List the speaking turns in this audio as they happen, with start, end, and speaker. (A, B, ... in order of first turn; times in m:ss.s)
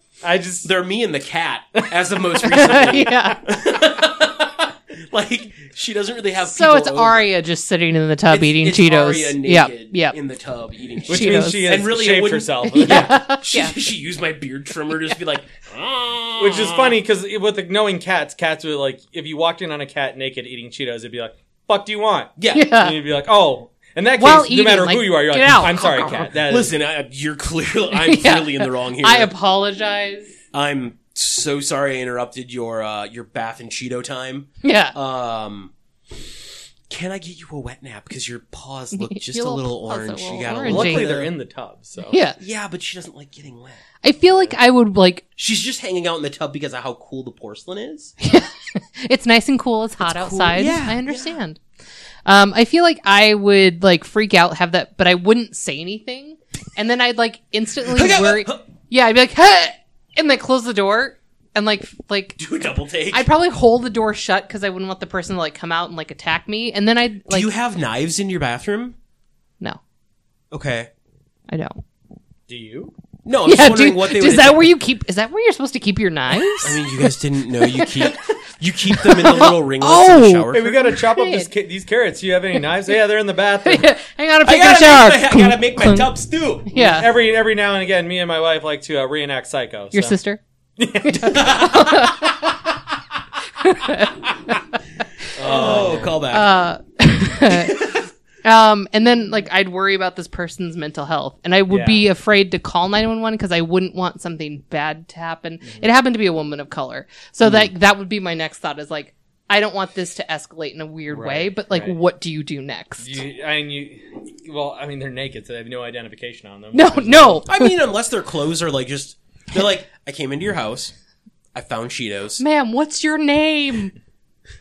0:00.2-0:00.7 A
0:00.6-0:07.3 B
0:01.8-0:02.0 A
0:02.4-0:03.4 C
0:06.4-0:10.2 C
0:08.3-0:17.0 B
0:11.0-0:11.8 C
0:11.1-0:13.1 A
0:12.6-0:13.8 C
0:16.4-0:26.7 A
0:22.4-0:22.7 B
0:22.5-0:23.0 C
0:24.2-0:26.2 C
0:26.4-0:29.3 B
0:27.9-0:30.3 C
0:30.5-0:35.7 B
0:34.6-0:35.0 C
0:36.9-0:41.3 B
0:38.9-0:41.1 C
0:40.6-0:42.2 A
0:42.1-0:42.4 C
0:42.4-0:43.8 B
0:44.0-0:45.2 C
0:45.4-0:48.1 B
0:48.2-0:51.6 C
0:50.0-0:51.4 B
0:52.2-1:02.4 C
0:57.9-0:58.6 B
1:02.4-1:03.3 B
1:03.1-1:07.5 C
1:07.3-1:09.0 B
1:10.5-1:10.9 B
1:11.5-1:11.8 C
1:12.5-1:12.9 A
1:13.2-1:14.7 B
1:13.4-1:18.2 C
1:16.5-1:20.8 B
1:18.9-1:21.5 C
1:20.5-1:23.9 A
1:23.6-1:26.1 C
1:24.4-1:26.7 B
1:26.7-1:27.1 C
1:26.8-1:30.2 A
1:29.9-1:30.4 C
1:30.8-1:31.9 A
1:31.0-1:32.6 C
1:31.2-1:32.2 B
1:33.6-1:34.6 C
1:35.3-1:53.2 C
1:35.4-1:36.2 A
1:35.4-1:36.5 B
1:37.5-1:38.0 B
1:41.7-1:42.1 A
1:51.1-1:52.0 A
1:53.0-1:57.4 A
1:56.7-1:57.8 C
1:57.5-2:00.9 B
2:01.5-2:02.4 B
2:02.4-2:03.9 C